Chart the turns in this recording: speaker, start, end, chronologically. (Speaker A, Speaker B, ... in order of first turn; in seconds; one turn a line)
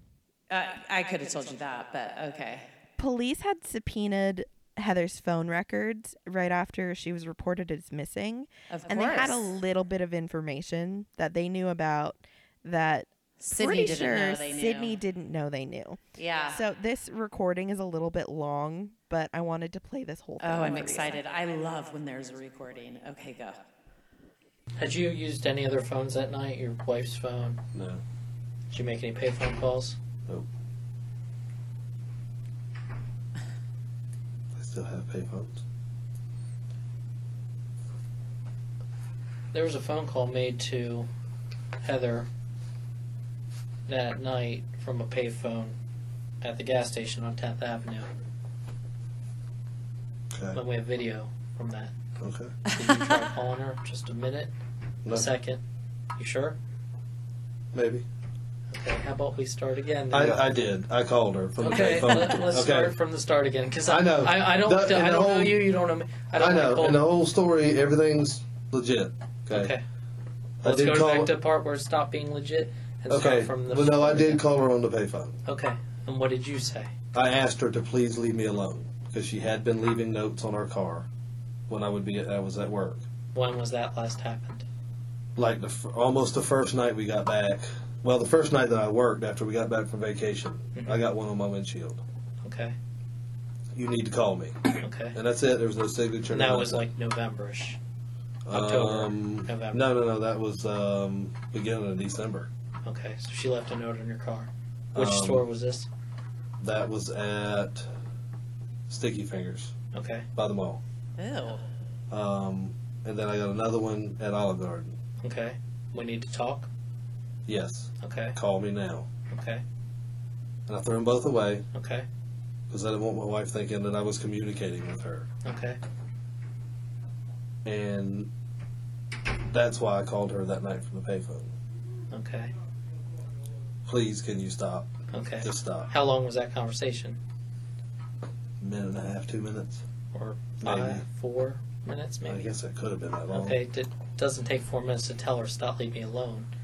Speaker A: 0.5-2.7
Speaker B: 3.0-21.1
Speaker A: 8.7-9.5
Speaker A: 13.4-15.0
Speaker A: 16.2-16.6
Speaker A: 20.4-23.6
Speaker C: 24.8-27.6
Speaker D: 27.7-28.0
Speaker C: 28.7-30.0
Speaker D: 34.5-35.6
Speaker C: 39.5-41.1
Speaker C: 41.8-42.3
Speaker C: 43.9-45.8
Speaker C: 46.4-48.1
Speaker D: 50.3-50.6
Speaker C: 50.5-51.9
Speaker D: 52.2-52.5
Speaker A: 52.7-53.1
Speaker C: 52.7-54.5
Speaker C: 55.1-55.6
Speaker C: 56.2-56.6
Speaker D: 57.7-58.1
Speaker C: 58.7-60.5
Speaker D: 60.1-62.9
Speaker C: 61.6-67.0
Speaker D: 63.9-65.6
Speaker D: 66.4-69.7
Speaker C: 69.5-69.8
Speaker C: 70.6-74.4
Speaker D: 70.6-71.3
Speaker D: 73.1-75.3
Speaker C: 75.5-76.9
Speaker D: 77.1-81.1
Speaker D: 81.7-83.0
Speaker C: 83.3-84.6
Speaker D: 85.4-92.0
Speaker C: 90.8-91.1
Speaker C: 92.4-92.8
Speaker D: 93.7-96.8
Speaker C: 94.8-95.2
Speaker C: 96.3-97.8
Speaker D: 98.5-102.5
Speaker C: 98.5-99.8
Speaker C: 102.8-105.9
Speaker D: 105.0-105.5
Speaker D: 106.6-107.9
Speaker D: 108.9-109.8
Speaker C: 109.9-110.3
Speaker D: 110.3-110.8
Speaker A: 111.2-111.6
Speaker D: 112.1-115.0
Speaker C: 115.2-116.7
Speaker D: 117.5-119.1
Speaker C: 118.0-118.4
Speaker C: 119.3-119.6
Speaker D: 120.7-121.7
Speaker C: 121.7-122.1
Speaker D: 122.7-125.3
Speaker C: 125.4-125.8
Speaker D: 127.6-128.3
Speaker D: 129.5-131.5
Speaker C: 132.1-132.5
Speaker D: 133.9-135.9
Speaker C: 135.1-137.2
Speaker D: 138.6-139.8
Speaker C: 140.1-142.5
Speaker D: 140.6-141.0
Speaker D: 142.3-143.6
Speaker C: 143.3-146.5